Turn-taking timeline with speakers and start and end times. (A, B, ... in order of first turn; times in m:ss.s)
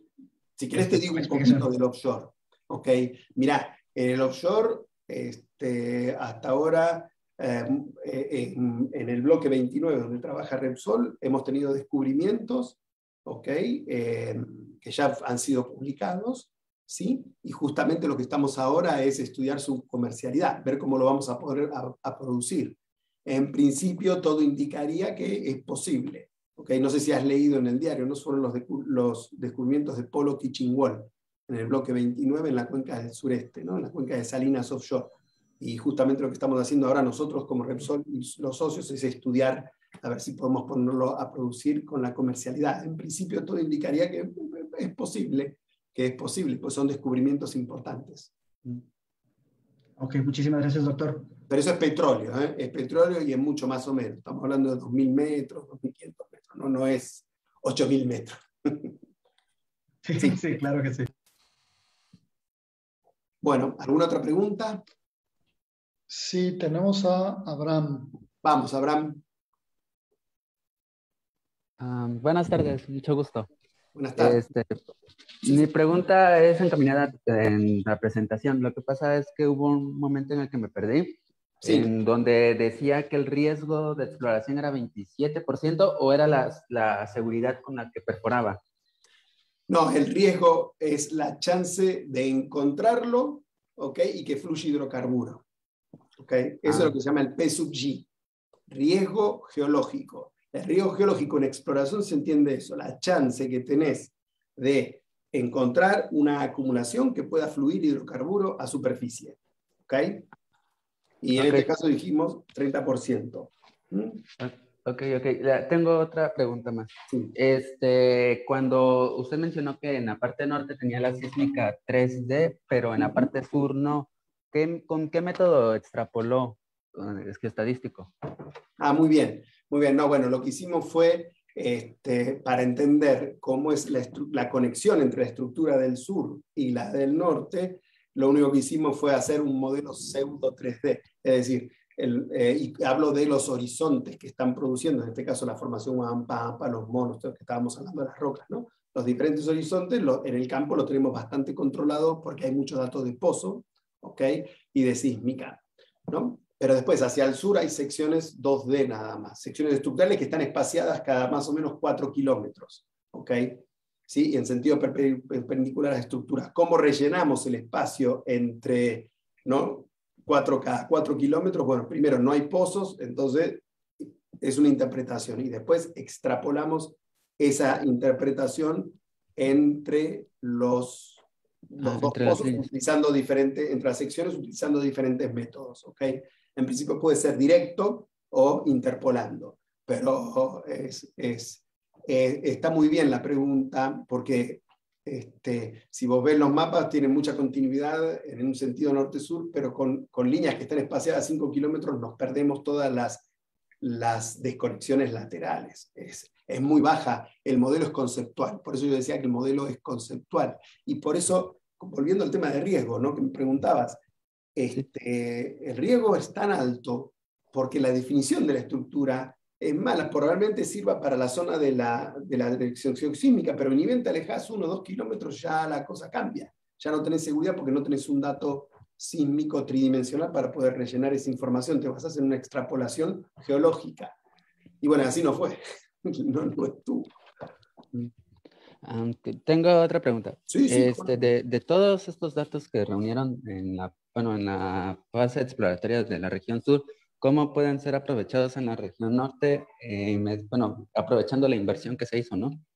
0:00.6-0:48.8 A
0:00.7-0:01.7 B
0:50.0-0:51.3 B
0:51.5-0:58.9 A
1:00.0-1:01.1 B
1:03.4-1:04.8 A
1:06.1-1:08.2 C
1:08.4-1:09.2 A
1:11.8-1:13.5 D
1:13.9-1:14.5 A
1:14.2-1:14.8 D
1:15.4-1:28.6 D
1:21.6-1:21.9 A
1:29.7-1:35.4 A
1:36.2-1:38.0 A
1:36.6-1:36.9 D
1:38.7-1:50.3 A
1:51.2-1:54.2 A
1:51.4-1:51.7 D
1:54.4-2:08.1 D
2:08.8-3:23.2 A
3:01.8-3:02.7 D
3:23.8-3:34.0 A
3:34.6-3:54.1 A
3:54.8-3:57.1 A
3:58.8-4:12.6 D
4:00.5-4:01.3 A